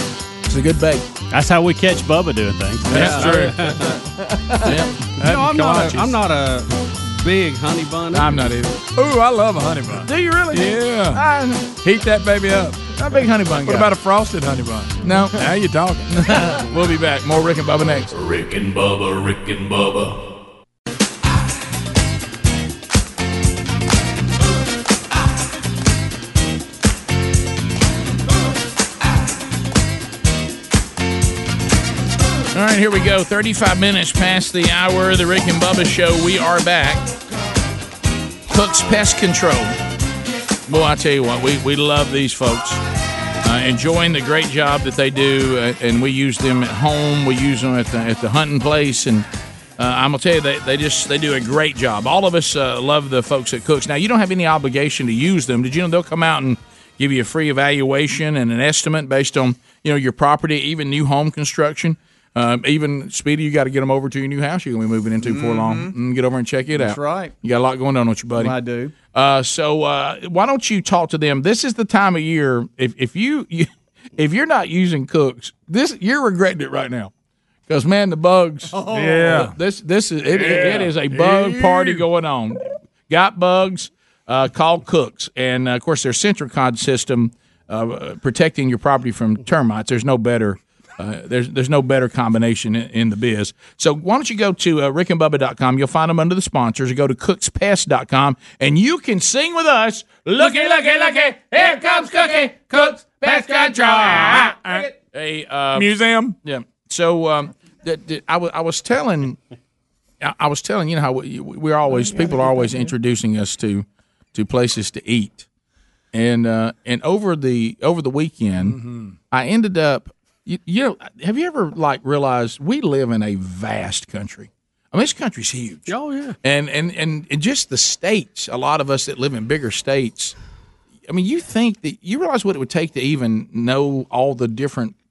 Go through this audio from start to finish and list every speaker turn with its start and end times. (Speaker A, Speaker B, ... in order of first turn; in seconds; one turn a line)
Speaker A: 0.5-1.1
Speaker B: 1.3-3.3
Speaker A: 2.9-3.4
Speaker C: 2.9-4.0
Speaker D: 2.9-3.8
Speaker E: 3.9-4.8
Speaker A: 4.6-5.1
Speaker C: 5.2-8.5
Speaker D: 5.2-6.0
Speaker A: 8.1-8.8
Speaker D: 8.9-11.2
Speaker A: 10.0-11.8
Speaker D: 11.8-12.9
Speaker A: 12.9-13.9
Speaker D: 13.5-16.4
Speaker A: 15.0-15.5
Speaker A: 16.1-18.1
Speaker F: 18.1-20.2
Speaker A: 32.5-37.1
Speaker A: 38.5-39.8
Speaker A: 40.7-42.8
Speaker A: 43.4-49.2
Speaker A: 49.8-68.6
Speaker E: 65.2-65.9
Speaker E: 66.7-67.3
Speaker E: 68.3-68.9
Speaker A: 69.1-77.1
Speaker A: 77.7-109.4
Speaker E: 78.7-79.5
Speaker D: 78.9-79.5
Speaker D: 80.3-82.0
Speaker D: 104.2-104.9
Speaker D: 105.7-106.3
Speaker A: 110.2-115.5
Speaker E: 112.3-112.8
Speaker A: 116.1-118.8
Speaker D: 118.6-119.1
Speaker A: 119.3-130.3
Speaker C: 125.9-126.3
Speaker A: 131.1-134.9